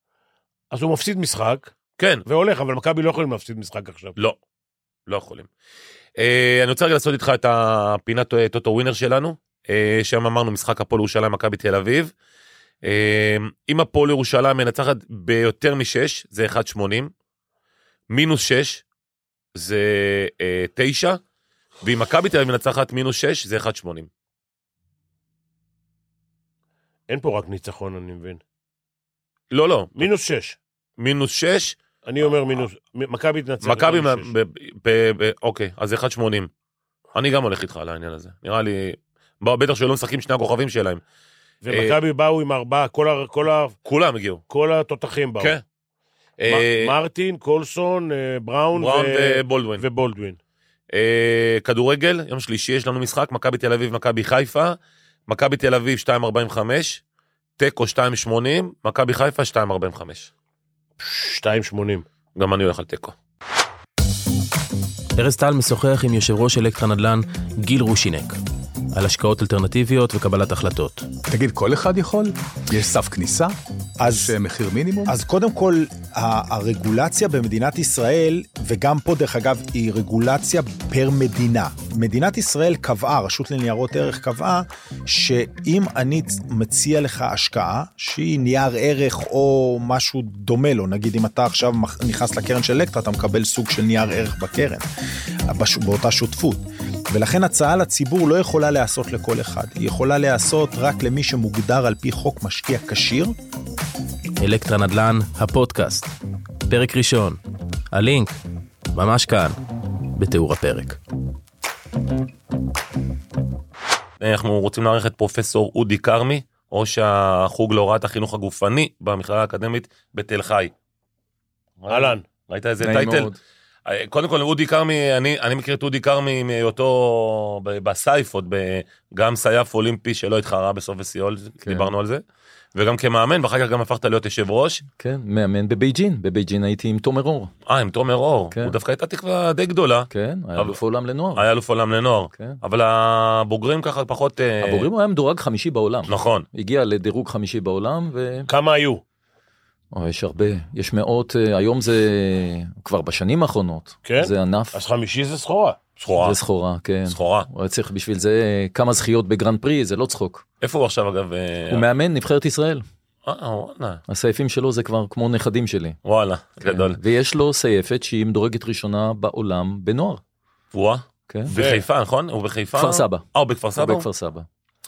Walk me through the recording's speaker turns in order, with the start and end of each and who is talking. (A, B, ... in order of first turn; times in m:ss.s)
0:00.7-0:01.7 A
0:02.0-0:02.2 B
0:02.2-0:04.1 A
0:05.1-0:05.5 B
0:06.2-0:12.1 B
0:12.8-0:17.1 B
0:18.1-0:18.8 B
0:19.5-0:21.2 B
0:21.8-0:24.1 B
0:27.1-0:28.4 A
0:29.5-0:30.0 B
0:30.0-0:30.6 A
0:31.0-0:31.8 B
0:32.0-0:34.3 A
0:33.6-0:36.5 B
0:37.1-0:41.0 B
0:41.6-0:43.7 A
0:41.7-0:42.0 B
0:43.8-0:44.4 B
0:44.5-0:45.5 A
0:46.4-0:46.9 B
0:46.5-0:50.4 A
0:48.7-0:49.8 B
0:50.9-0:54.8 B
0:55.3-0:57.0 B
0:57.6-1:00.3 B
1:01.0-1:02.0 A
1:02.3-1:03.1 B
1:05.2-1:08.4 C
1:08.9-1:11.1 C
1:11.3-1:13.5 D
1:14.0-1:14.3 E
1:14.1-1:15.1 D
1:15.1-1:34.8 E
1:35.5-1:43.3 E
1:44.4-1:46.1 C
1:46.6-1:47.4 C
1:47.9-1:48.4 C
1:48.9-1:49.6 C
1:50.1-1:51.0 C
1:54.2-2:00.7 B
2:01.8-2:03.3 B
2:01.9-2:02.2 A
2:02.8-2:03.4 F
2:03.8-2:12.2 B
2:12.7-2:14.8 B
2:15.0-2:17.5 F
2:17.6-2:20.8 B
2:20.1-2:21.4 F
2:21.4-2:24.9 B
2:22.3-2:22.6 F
2:24.6-2:28.5 F
2:26.1-2:26.5 B
2:28.5-2:29.0 A
2:29.9-2:34.8 F
2:34.0-2:35.9 A
2:36.0-2:36.4 B
2:36.2-2:40.4 F
2:37.1-2:37.5 B
2:40.6-2:41.9 B
2:41.7-2:42.8 F
2:43.2-2:44.0 B
2:44.1-2:46.0 F
2:46.0-2:47.0 B
2:46.6-2:50.2 F
2:50.7-2:54.1 B
2:51.3-2:51.6 F
2:51.5-2:51.8 A
2:52.8-2:53.2 F
2:53.8-2:54.4 F